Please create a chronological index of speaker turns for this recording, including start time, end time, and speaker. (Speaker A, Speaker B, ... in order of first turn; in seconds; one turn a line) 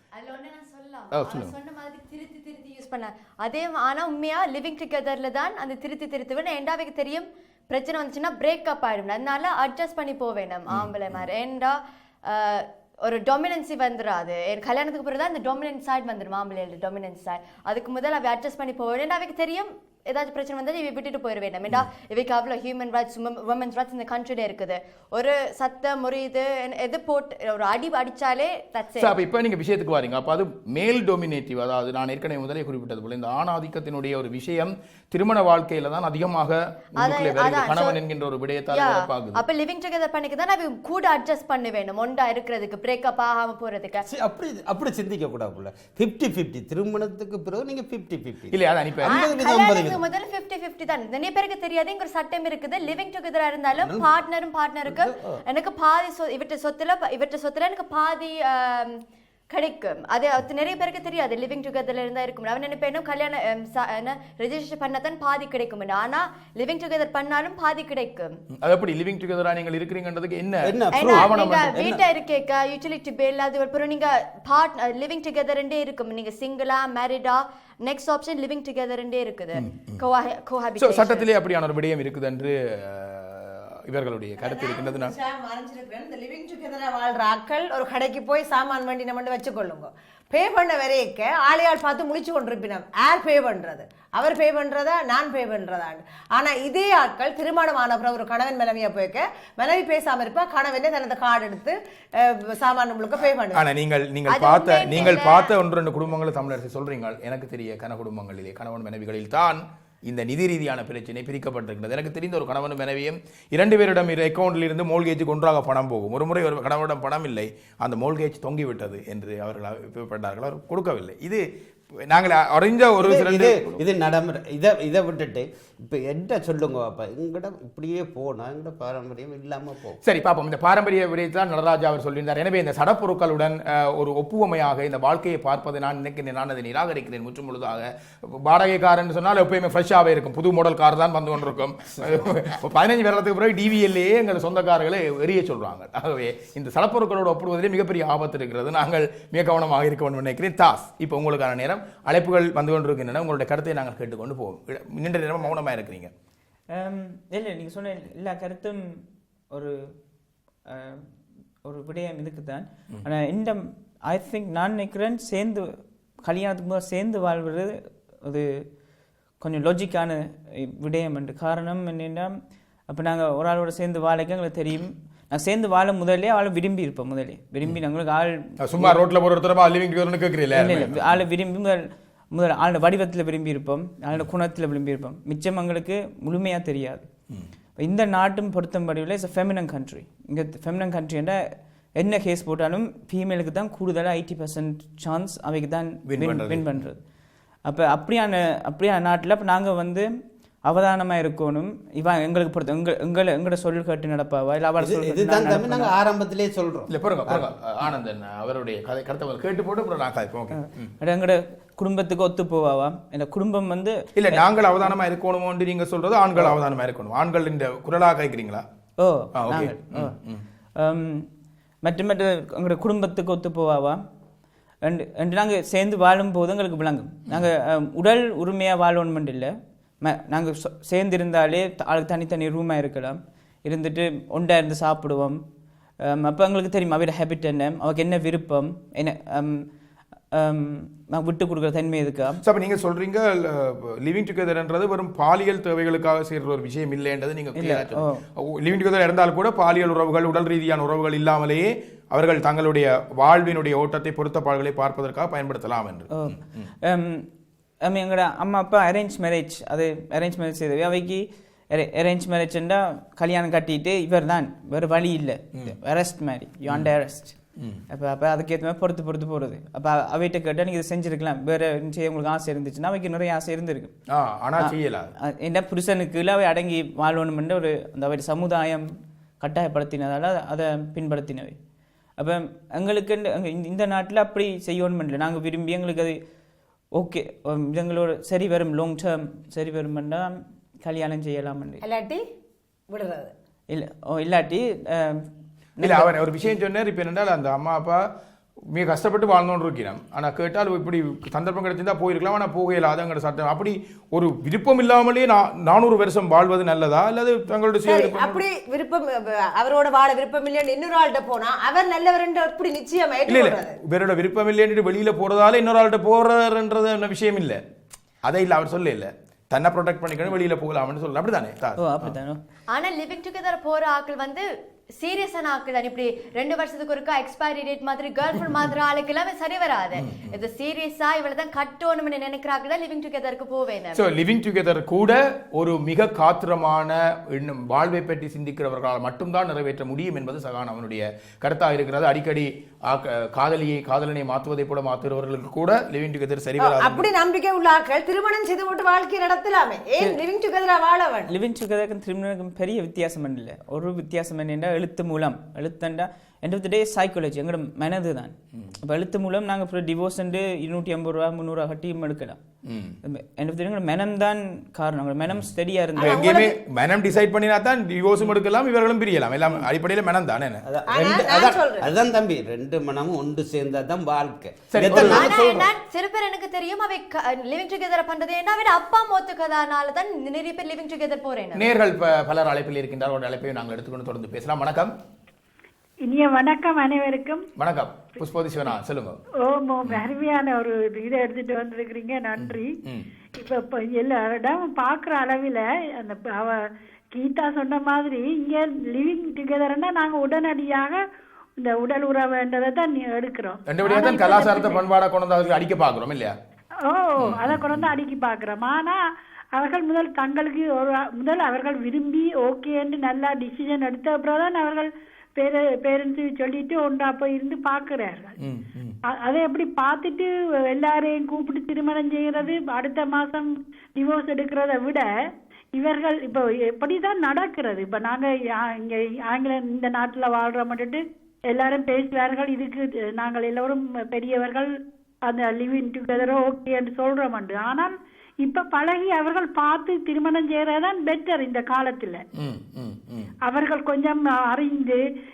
Speaker A: 0.1-29.1
Speaker B: 1.1-1.5
Speaker B: 29.0-39.4
Speaker A: 37.0-38.0
Speaker A: 38.7-44.0
Speaker C: 44.0-50.0
Speaker B: 48.5-49.2
Speaker A: 49.0-68.4
Speaker C: 53.8-54.1
Speaker C: 54.9-55.4
Speaker B: 68.6-71.8
Speaker C: 70.6-72.0
Speaker A: 70.9-81.3
Speaker B: 79.5-80.0
Speaker B: 80.8-85.1
Speaker D: 84.4-103.6
Speaker B: 103.5-123.8
Speaker A: 104.3-105.5
Speaker C: 123.0-130.0
Speaker B: 130.0-156.1
Speaker E: 156.7-159.8
Speaker E: 160.7-161.1
Speaker E: 161.6-168.6
Speaker E: 169.4-172.3
Speaker E: 172.9-179.0
Speaker B: 178.6-181.2
Speaker E: 180.5-187.1
Speaker E: 187.8-197.0
Speaker B: 196.0-196.8
Speaker E: 197.7-200.1
Speaker E: 200.6-205.9
Speaker C: 204.8-207.4
Speaker B: 206.9-210.9
Speaker E: 210.5-214.4
Speaker B: 214.1-218.6
Speaker E: 219.0-220.2
Speaker B: 219.3-220.4
Speaker E: 220.8-221.3
Speaker E: 221.8-224.0
Speaker E: 224.8-229.5
Speaker E: 230.0-235.4
Speaker E: 236.0-239.7
Speaker E: 240.3-242.4
Speaker B: 242.4-256.7
Speaker E: 247.6-248.2
Speaker E: 256.1-257.3
Speaker E: 257.8-273.9
Speaker B: 267.6-267.8
Speaker B: 274.1-275.1
Speaker E: 274.6-281.6
Speaker E: 282.2-286.2
Speaker E: 286.9-291.8
Speaker D: 291.8-292.2
Speaker D: 292.9-293.3
Speaker E: 293.7-296.1
Speaker B: 295.8-298.1
Speaker B: 298.7-308.4
Speaker D: 307.8-313.8
Speaker B: 313.3-317.6
Speaker B: 318.2-322.1
Speaker E: 321.8-322.4
Speaker A: 322.7-334.0
Speaker B: 329.9-330.4
Speaker B: 333.9-347.1
Speaker D: 346.6-351.3
Speaker E: 351.3-362.4
Speaker B: 362.6-363.0
Speaker E: 363.0-366.2
Speaker D: 365.9-366.6
Speaker B: 366.0-370.6
Speaker C: 370.6-375.6
Speaker D: 370.9-371.9
Speaker B: 374.7-375.6
Speaker A: 374.9-381.6
Speaker B: 381.5-384.9
Speaker F: 386.1-387.5
Speaker B: 387.6-389.2
Speaker F: 389.4-392.8
Speaker B: 389.8-390.1
Speaker B: 392.4-393.1
Speaker F: 393.4-401.0
Speaker F: 401.6-404.8
Speaker B: 403.7-406.4
Speaker F: 406.9-409.0
Speaker B: 407.2-407.9
Speaker F: 409.6-418.3
Speaker B: 418.4-418.9
Speaker F: 419.2-425.1
Speaker F: 425.8-434.7
Speaker F: 435.3-442.2
Speaker B: 442.4-443.3
Speaker F: 443.5-445.0